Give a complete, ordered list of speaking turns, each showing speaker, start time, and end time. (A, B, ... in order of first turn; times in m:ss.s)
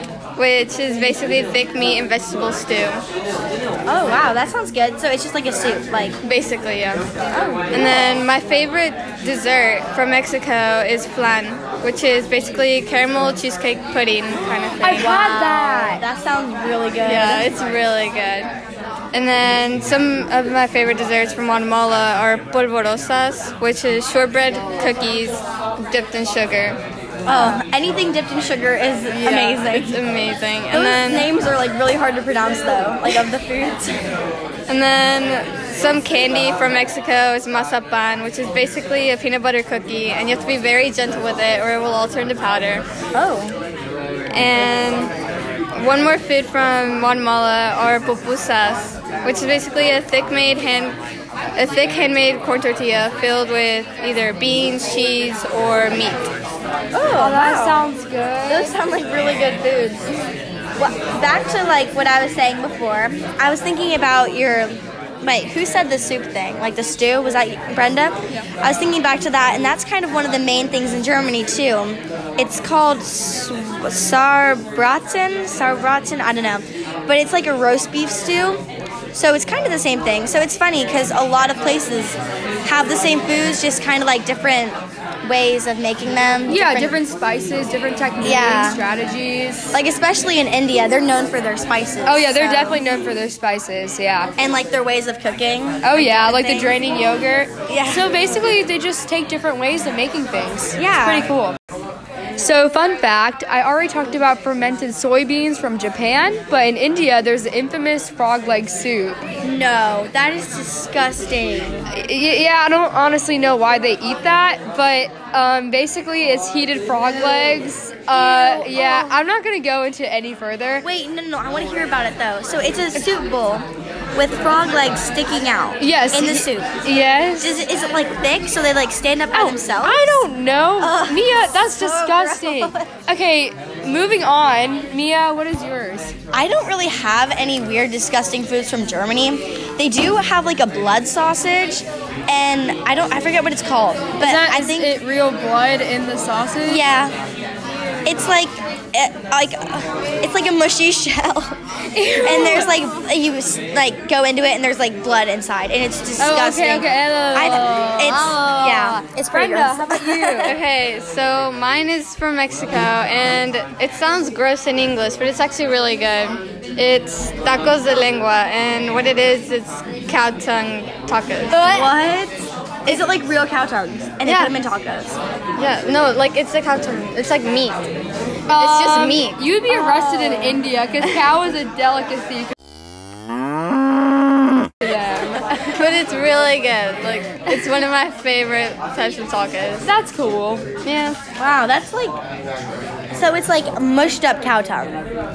0:00.4-0:03.0 A
0:03.9-0:06.2 B
0:06.2-0:07.1 A
0:07.3-0:08.0 B
0:07.7-0:15.4 A
0:14.8-0:16.0 C
0:14.9-0:17.5 B
0:17.0-0:18.5 A
0:19.1-0:26.8 A
0:27.3-0:30.0 B
0:27.3-0:27.6 A
0:29.1-0:31.3 A
0:30.7-0:34.0 B
0:34.7-0:42.9 A
0:43.1-0:43.6 B
0:44.3-0:45.1 A
0:45.8-0:51.0 A
0:51.6-0:56.3 A
0:56.9-0:57.8 B
0:57.1-0:58.8 C
0:58.5-1:00.1 B
1:00.8-1:27.0 B
1:26.5-1:29.8 C
1:28.2-1:28.8 B
1:29.7-1:32.8 B
1:32.0-1:34.3 C
1:34.4-1:36.8 B
1:35.8-1:41.6 C
1:37.7-1:38.1 B
1:40.8-1:41.3 B
1:42.4-1:49.2 C
1:49.4-1:51.9 B
1:51.9-2:00.9 C
1:58.1-1:59.2 B
2:00.8-2:06.8 B
2:05.8-2:07.6 C
2:07.4-2:10.3 B
2:09.3-2:16.1 C
2:10.8-2:12.9 B
2:16.3-2:25.0 B
2:24.2-2:26.9 C
2:26.7-2:27.2 B
2:28.0-2:31.6 B
2:31.9-2:32.7 C
2:32.2-2:40.6 B
2:36.2-2:40.6 C
2:40.4-2:51.9 A
2:51.5-2:55.2 B
2:52.9-2:53.1 A
2:54.2-2:54.5 A
2:55.6-2:57.8 A
2:58.5-3:02.5 C
2:58.5-3:00.4 A
3:04.8-3:05.4 C
3:05.5-3:09.9 A
3:09.8-3:10.6 C
3:10.8-3:11.2 A
3:11.4-3:12.2 B
3:13.1-3:15.0 B